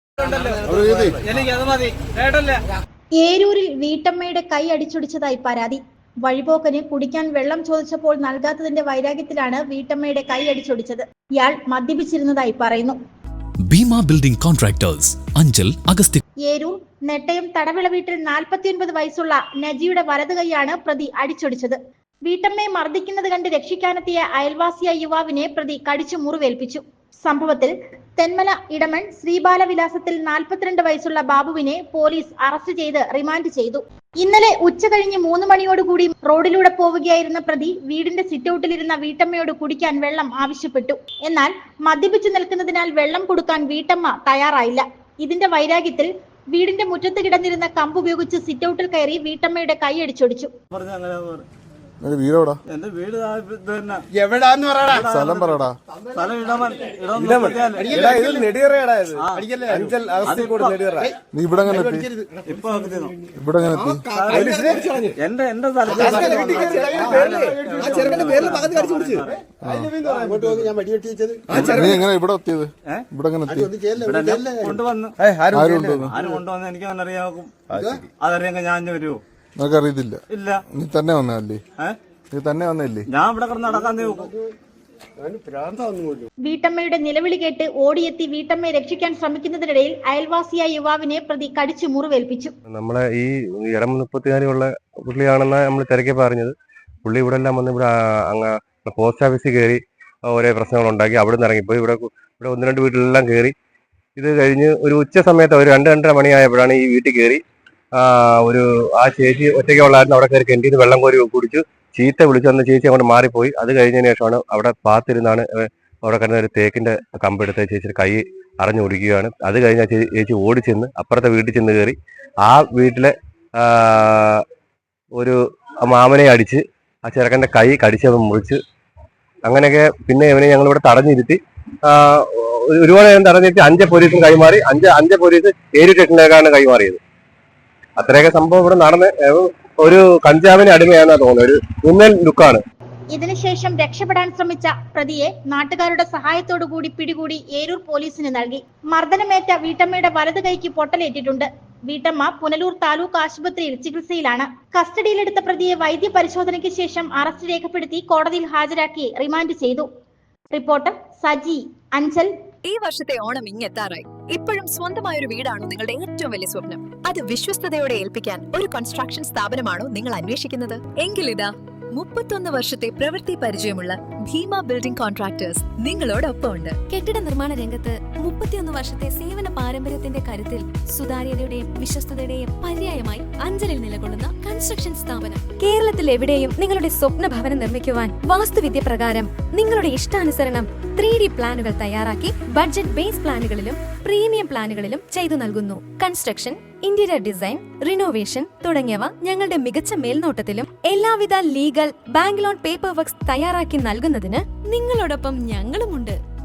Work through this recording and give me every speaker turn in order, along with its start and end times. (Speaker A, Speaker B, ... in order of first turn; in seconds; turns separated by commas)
Speaker A: 0.2-2.6, Speaker B: 0.7-1.1, Speaker C: 3.2-12.9, Speaker D: 13.7-16.2, Speaker C: 16.4-50.5, Speaker A: 50.7-51.4, Speaker E: 52.0-52.6, Speaker A: 52.7-54.0, Speaker B: 54.1-55.0, Speaker A: 54.9-58.5, Speaker E: 54.9-55.8, Speaker B: 57.1-62.5, Speaker A: 59.2-61.1, Speaker E: 61.3-62.1, Speaker A: 62.4-63.2, Speaker E: 63.4-64.2, Speaker B: 63.7-65.2, Speaker A: 64.1-69.4, Speaker B: 65.8-72.0, Speaker E: 69.6-69.9, Speaker A: 70.0-70.7, Speaker E: 71.5-73.7, Speaker A: 71.5-71.9, Speaker B: 73.5-76.4, Speaker A: 74.0-75.1, Speaker E: 75.5-76.2, Speaker A: 76.1-79.2, Speaker B: 77.7-78.0, Speaker E: 79.6-81.6, Speaker A: 80.3-80.6, Speaker E: 82.3-83.1, Speaker A: 83.1-84.3, Speaker B: 83.8-84.5, Speaker B: 85.2-86.2, Speaker C: 86.4-92.5, Speaker F: 92.7-103.5, Speaker F: 104.2-107.4, Speaker F: 108.0-124.4, Speaker F: 125.2-128.6, Speaker F: 129.4-137.0, Speaker F: 138.0-142.6, Speaker C: 143.1-159.9, Speaker C: 160.5-162.3, Speaker G: 162.6-176.8, Speaker H: 176.9-206.1